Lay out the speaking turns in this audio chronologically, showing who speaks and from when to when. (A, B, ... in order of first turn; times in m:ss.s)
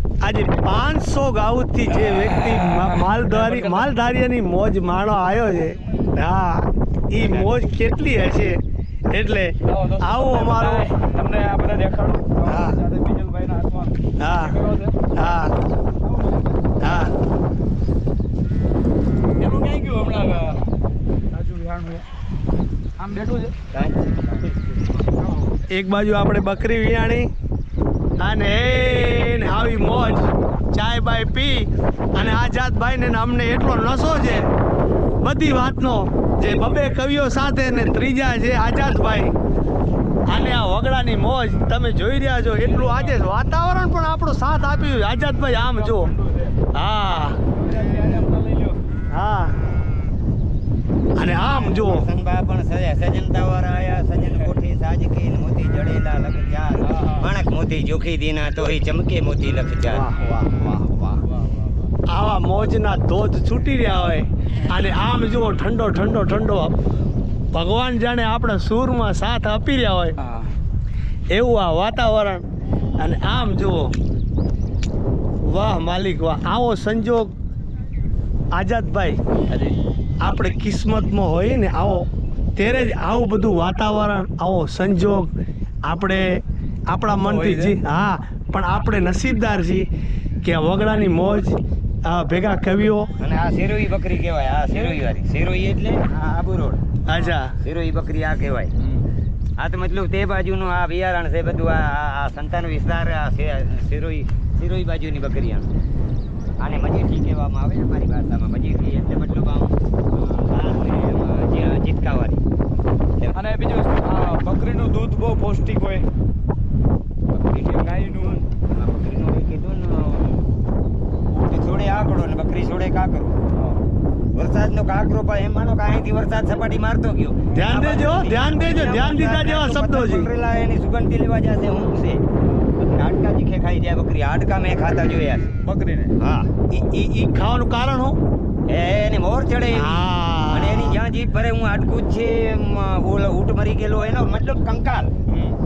0:00.2-0:08.6 A
0:01.9-0:03.9 B
0:09.1-0:10.9 A
0:09.6-0:15.1 B
0:12.4-0:12.8 A
0:14.2-0:14.6 A
0:15.1-0:15.5 A
0:16.0-0:16.8 B
0:16.8-0:17.1 A
0:19.4-0:20.6 B
0:21.3-0:22.0 B
0:23.0-0:23.6 B
0:23.7-0:24.4 C
0:25.7-0:27.3 A
0:28.2-0:34.5 A
0:35.2-0:39.3 A
0:40.3-0:46.1 A
0:42.6-0:43.2 B
0:45.5-0:46.5 B
0:46.7-0:47.4 A
0:47.5-0:48.8 B
0:49.1-0:49.5 A
0:51.2-0:52.1 A
0:51.4-1:00.1 C
0:56.8-0:57.2 B
0:59.9-1:01.1 A
1:02.1-1:06.8 A
1:07.5-1:10.2 A
1:10.2-1:10.5 B
1:11.3-1:12.4 A
1:13.0-1:13.9 A
1:15.4-1:17.3 A
1:18.5-1:19.2 A
1:19.5-1:19.7 B
1:20.2-1:25.3 A
1:25.8-1:29.8 A
1:27.2-1:27.7 B
1:30.4-1:33.1 A
1:33.2-1:36.8 C
1:37.0-1:37.5 A
1:37.6-1:38.7 C
1:39.6-1:45.7 C
1:46.6-1:52.4 C
1:53.3-1:56.0 B
1:57.3-2:00.4 C
1:57.6-1:58.4 B
2:01.3-2:03.4 C
2:04.3-2:12.2 C
2:07.5-2:10.3 A
2:12.8-2:15.5 C
2:15.6-2:16.1 B
2:16.2-2:16.5 C
2:16.7-2:18.2 A
2:18.7-2:25.1 C
2:19.7-2:21.0 A